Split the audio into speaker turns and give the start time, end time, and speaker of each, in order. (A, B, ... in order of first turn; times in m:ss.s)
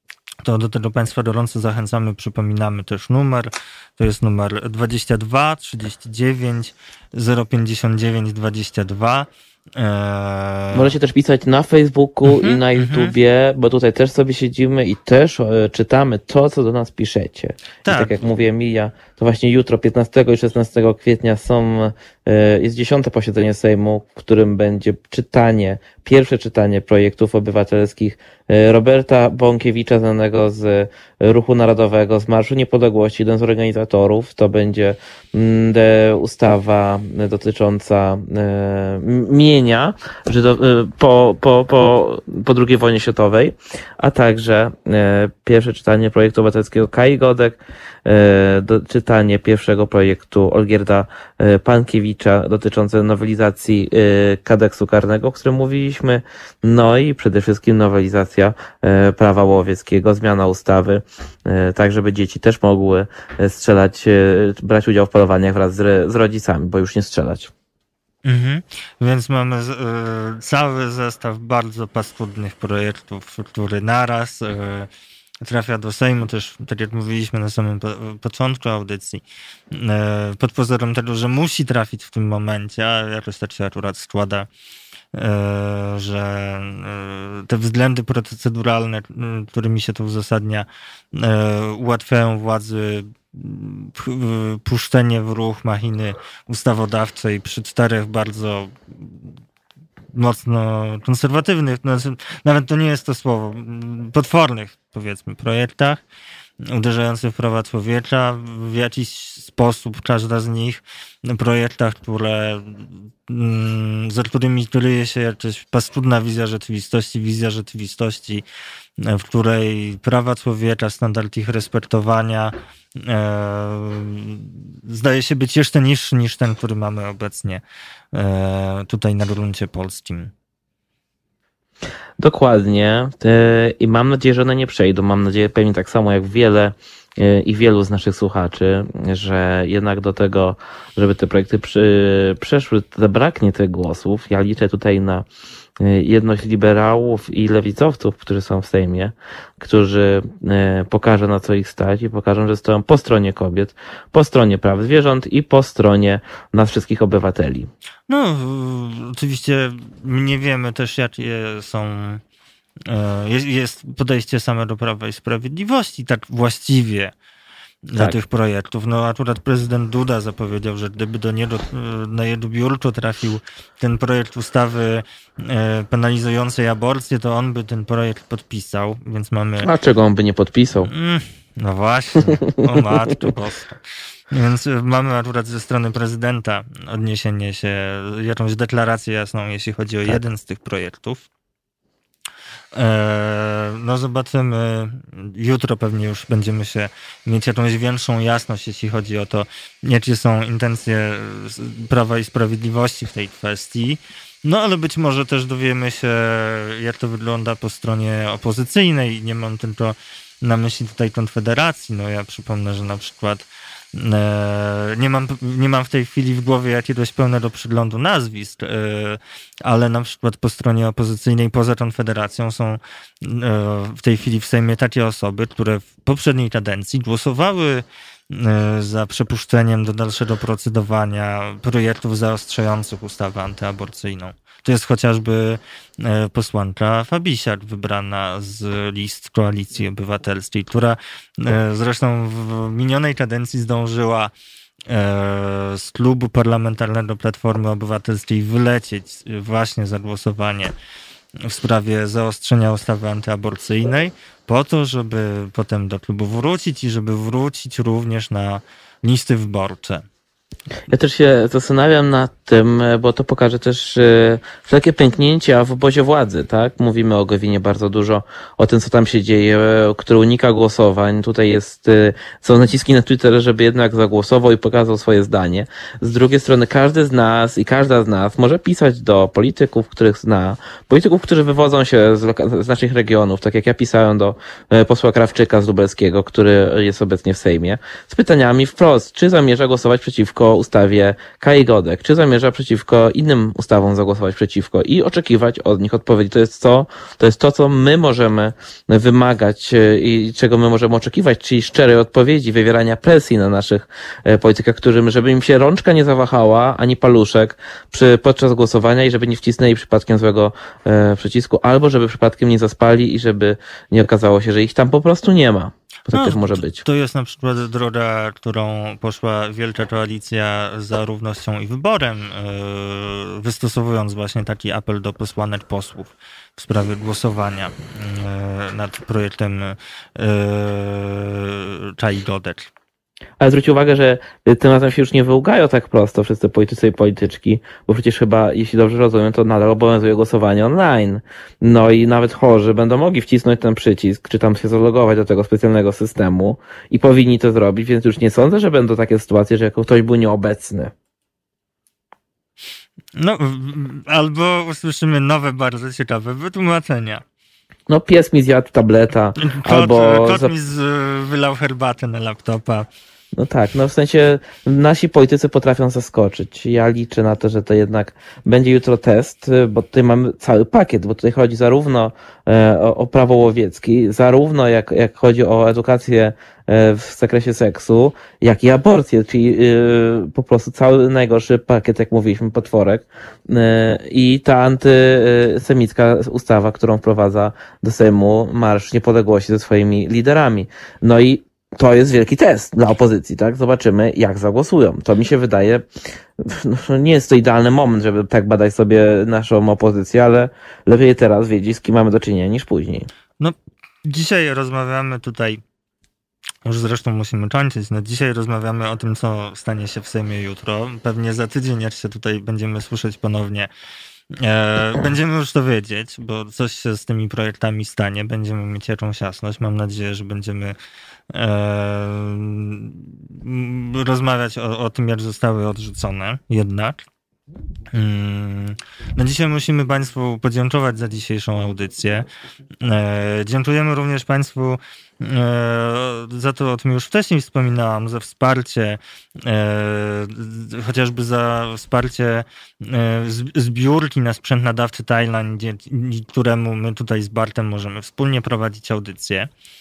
0:00.4-0:10.9 A
0:10.7-1:07.5 B
0:12.2-0:13.1 A
0:17.9-0:18.2 A
1:08.2-1:14.9 A
1:15.4-1:24.5 A
1:25.1-1:39.2 A
1:40.1-1:46.0 A
1:46.6-1:58.4 A
1:59.0-2:07.6 A
2:08.1-2:10.3 A
2:12.2-2:25.3 B
2:25.8-2:37.7 B
2:38.1-2:42.2 A
2:42.9-2:47.1 A
2:47.9-2:59.7 A
2:59.6-3:00.9 B
3:00.9-3:03.8 A
3:02.3-3:03.2 B
3:04.3-3:11.3 A
3:12.7-4:04.3 A
4:04.9-4:10.7 A
4:11.4-4:20.0 A
4:20.9-5:16.8 B
5:16.1-5:32.7 A
5:33.4-5:50.9 B
5:53.2-5:57.2 A
5:57.9-6:00.5 B
5:59.4-6:02.9 A
6:03.3-6:35.9 B
6:36.4-6:43.1 B
6:43.4-6:45.6 A
6:46.6-6:53.7 A
6:54.3-7:00.8 A
7:01.3-7:07.0 A
7:07.9-7:12.3 A
7:12.8-7:29.5 A